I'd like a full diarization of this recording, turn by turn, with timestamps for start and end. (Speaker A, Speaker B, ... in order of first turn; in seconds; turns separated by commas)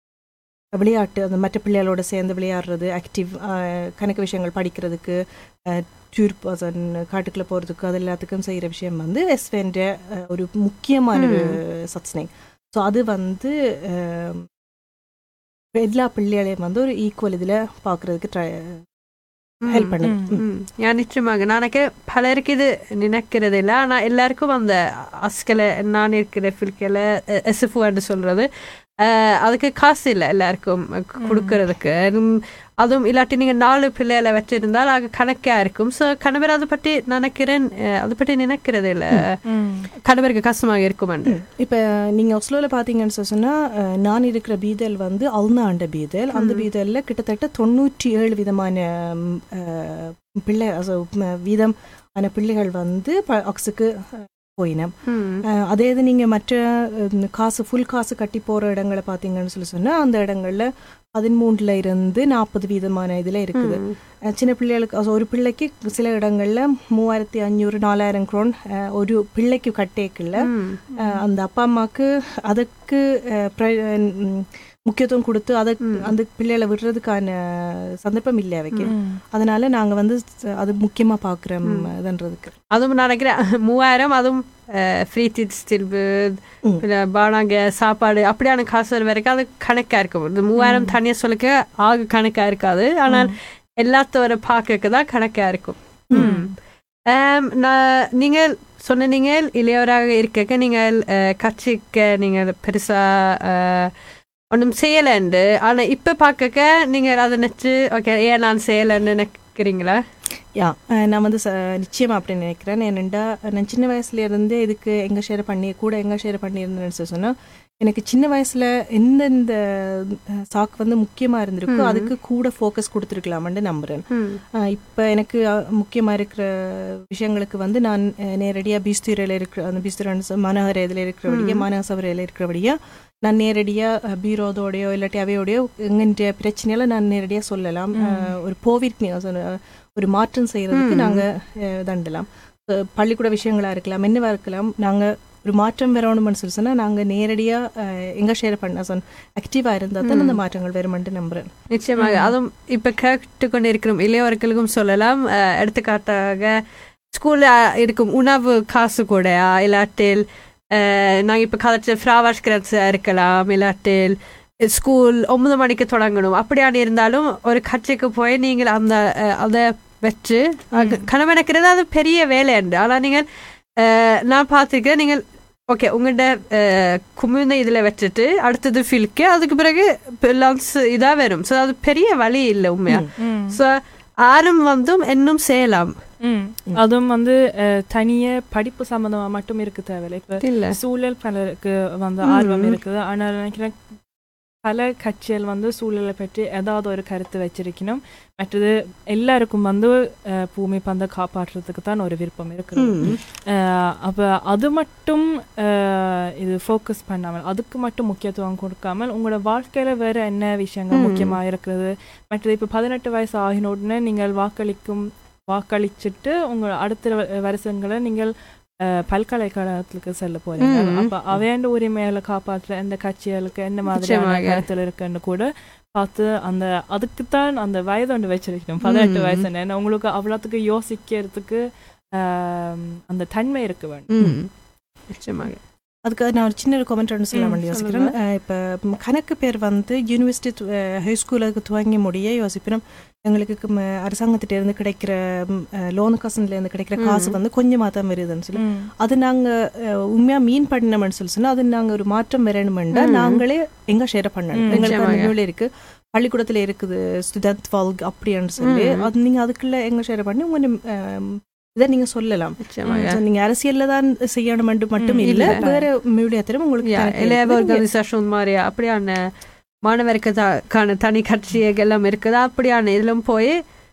Speaker A: 0.8-14.5, Speaker B: 11.2-11.6, Speaker A: 15.8-18.8, Speaker B: 19.6-28.5, Speaker A: 19.7-20.4, Speaker C: 20.0-20.3, Speaker B: 29.0-39.4, Speaker C: 31.2-31.6, Speaker C: 39.5-39.9, Speaker B: 40.0-41.4, Speaker A: 41.3-54.9, Speaker B: 46.4-46.7, Speaker B: 55.1-55.4, Speaker A: 55.5-70.5, Speaker B: 63.6-64.0, Speaker B: 70.4-70.8, Speaker C: 71.0-71.2, Speaker A: 71.0-82.5, Speaker B: 75.8-76.1, Speaker C: 78.9-79.2, Speaker B: 82.7-96.5, Speaker C: 90.6-91.0, Speaker C: 93.1-93.3, Speaker C: 96.1-96.5, Speaker B: 97.1-103.9, Speaker B: 104.5-110.0, Speaker A: 110.6-124.1, Speaker B: 121.7-122.1, Speaker B: 124.1-124.4, Speaker A: 124.6-151.5, Speaker B: 131.3-131.6, Speaker C: 137.9-138.3, Speaker B: 140.7-141.2, Speaker B: 150.0-150.4, Speaker B: 151.7-156.5, Speaker C: 152.0-152.3, Speaker B: 157.1-160.2, Speaker B: 160.7-164.2, Speaker B: 164.7-173.2, Speaker A: 170.8-171.1, Speaker B: 173.8-186.0, Speaker C: 183.2-183.6, Speaker C: 186.2-194.0, Speaker B: 190.4-190.8, Speaker B: 192.2-192.8, Speaker C: 194.6-218.3, Speaker B: 202.8-203.2, Speaker B: 210.9-211.4, Speaker C: 218.9-231.6, Speaker B: 220.6-221.1, Speaker B: 223.9-224.6, Speaker B: 228.8-229.4, Speaker C: 232.2-234.1, Speaker B: 234.1-234.5, Speaker B: 235.1-235.6, Speaker A: 236.1-267.9, Speaker B: 237.3-238.1, Speaker B: 247.0-247.4, Speaker C: 248.6-248.9, Speaker B: 252.9-253.4, Speaker C: 254.5-254.9, Speaker B: 254.8-255.3, Speaker B: 258.6-259.1, Speaker B: 262.7-263.2, Speaker C: 265.0-265.9, Speaker B: 265.2-265.6, Speaker B: 266.9-269.2, Speaker B: 269.9-273.6